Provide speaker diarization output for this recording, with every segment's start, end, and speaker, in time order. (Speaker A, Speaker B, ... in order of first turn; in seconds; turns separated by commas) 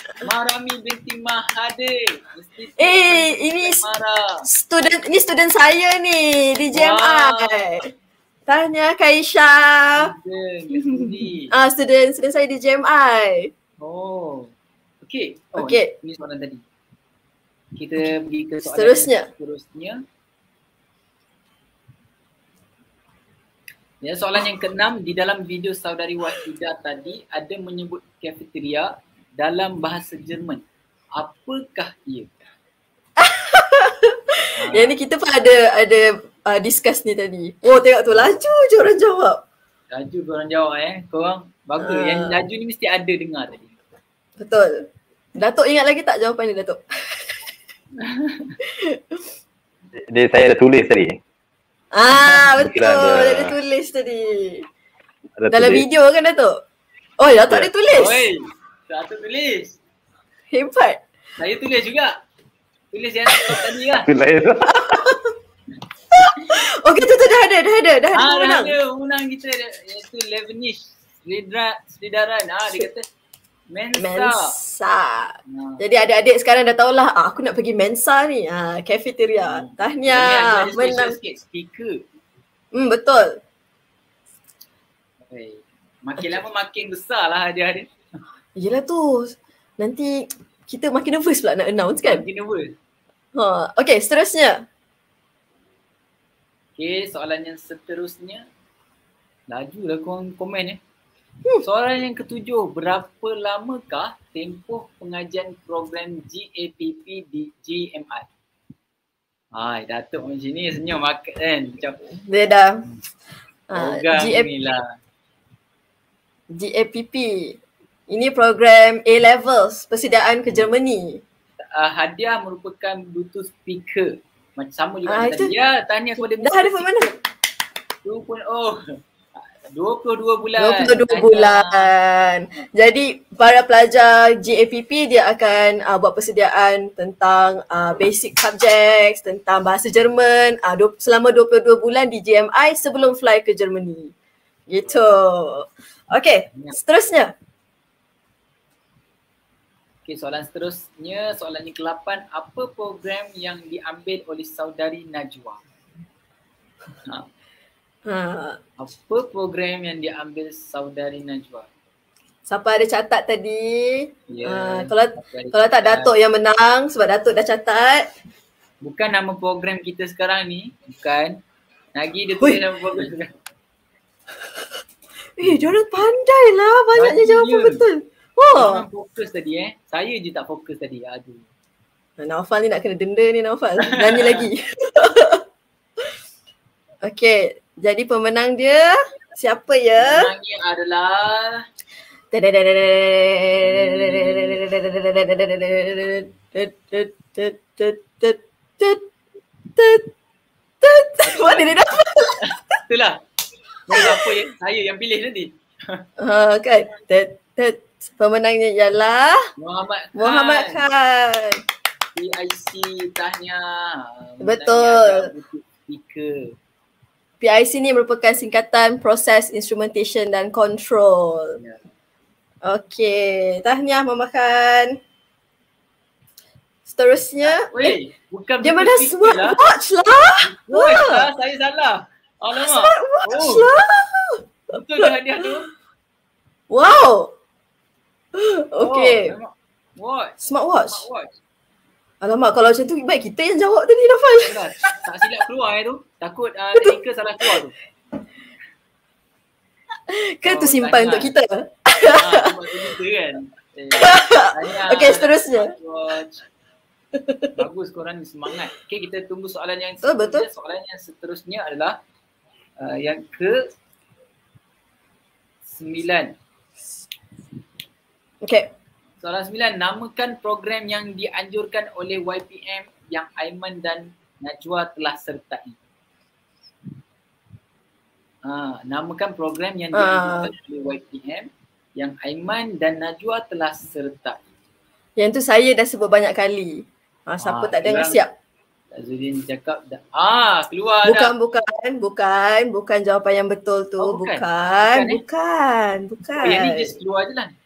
Speaker A: 0.2-4.5, Speaker B: 2.8-3.8, Speaker B: 4.5-7.9, Speaker A: 6.7-7.7, Speaker B: 8.5-10.1, Speaker A: 10.0-11.5, Speaker B: 10.8-13.5, Speaker A: 13.8-14.5, Speaker A: 15.0-16.6, Speaker B: 15.6-15.9, Speaker A: 17.7-20.0, Speaker B: 18.6-19.3, Speaker A: 24.0-30.6, Speaker A: 31.2-32.3, Speaker B: 33.2-39.4, Speaker A: 34.6-35.0, Speaker A: 39.9-43.7, Speaker B: 41.8-42.4, Speaker B: 44.4-44.8, Speaker B: 45.4-47.4, Speaker A: 48.0-48.5, Speaker B: 48.6-49.2, Speaker C: 50.1-51.2, Speaker B: 51.9-54.6, Speaker C: 52.6-53.5, Speaker C: 55.4-55.8, Speaker B: 55.5-56.6, Speaker B: 57.2-58.3, Speaker A: 57.9-59.7, Speaker B: 60.5-61.0, Speaker A: 61.4-62.1, Speaker A: 62.9-64.1, Speaker C: 64.1-65.0, Speaker B: 64.7-65.3, Speaker B: 66.2-68.7, Speaker A: 68.1-73.0, Speaker A: 73.7-74.5, Speaker B: 74.0-81.2, Speaker A: 75.5-75.8, Speaker A: 79.4-82.0, Speaker B: 82.7-83.4, Speaker A: 85.3-87.9, Speaker B: 88.5-92.2, Speaker A: 92.0-92.7, Speaker B: 93.3-94.6, Speaker A: 96.8-98.4, Speaker A: 99.5-100.8, Speaker A: 101.6-108.3, Speaker A: 109.5-112.0, Speaker B: 112.2-112.8, Speaker B: 113.7-114.5, Speaker A: 113.7-114.8, Speaker B: 116.5-117.6, Speaker B: 118.1-121.2, Speaker A: 121.8-127.1, Speaker B: 125.1-125.5, Speaker B: 126.4-127.1, Speaker A: 128.0-128.8, Speaker A: 129.7-131.9, Speaker B: 130.6-144.1, Speaker B: 144.7-147.3, Speaker A: 150.1-155.6, Speaker B: 158.1-158.6, Speaker A: 158.8-161.7, Speaker B: 162.5-168.1, Speaker A: 164.3-166.1, Speaker A: 168.8-171.4, Speaker A: 171.9-173.3, Speaker B: 175.4-178.8, Speaker A: 176.9-177.8, Speaker A: 178.5-181.5, Speaker B: 182.2-185.4, Speaker A: 183.8-184.5, Speaker B: 187.0-190.3, Speaker A: 190.0-191.6, Speaker B: 192.3-199.0, Speaker A: 193.6-194.6, Speaker B: 199.8-200.1, Speaker B: 200.8-202.4, Speaker A: 201.2-201.7, Speaker A: 202.4-203.2, Speaker A: 203.9-206.0, Speaker B: 203.9-204.3, Speaker B: 206.2-209.4, Speaker A: 209.6-210.8, Speaker B: 210.2-211.6, Speaker A: 212.2-216.5, Speaker B: 214.4-215.3, Speaker B: 217.4-221.6, Speaker A: 221.6-221.8, Speaker B: 222.6-225.0, Speaker B: 226.8-227.9, Speaker A: 227.4-229.6, Speaker B: 228.6-231.3, Speaker A: 230.4-233.7, Speaker B: 232.5-234.4, Speaker A: 234.7-235.7, Speaker B: 236.7-237.3, Speaker B: 238.3-239.3, Speaker A: 238.8-241.3, Speaker B: 240.4-241.0, Speaker B: 242.2-244.6, Speaker A: 244.4-247.7, Speaker B: 250.1-252.9, Speaker A: 250.4-251.3, Speaker A: 252.1-256.4, Speaker B: 253.9-255.7, Speaker B: 257.1-257.5, Speaker A: 257.6-262.0, Speaker B: 260.0-260.4, Speaker A: 262.8-263.6, Speaker A: 265.6-266.3, Speaker B: 268.4-268.7, Speaker A: 269.2-275.8, Speaker A: 278.4-284.4, Speaker B: 279.9-280.5, Speaker B: 285.2-288.3, Speaker A: 287.4-288.2, Speaker A: 288.9-291.3, Speaker B: 291.0-296.9, Speaker A: 294.0-295.2, Speaker A: 296.4-297.5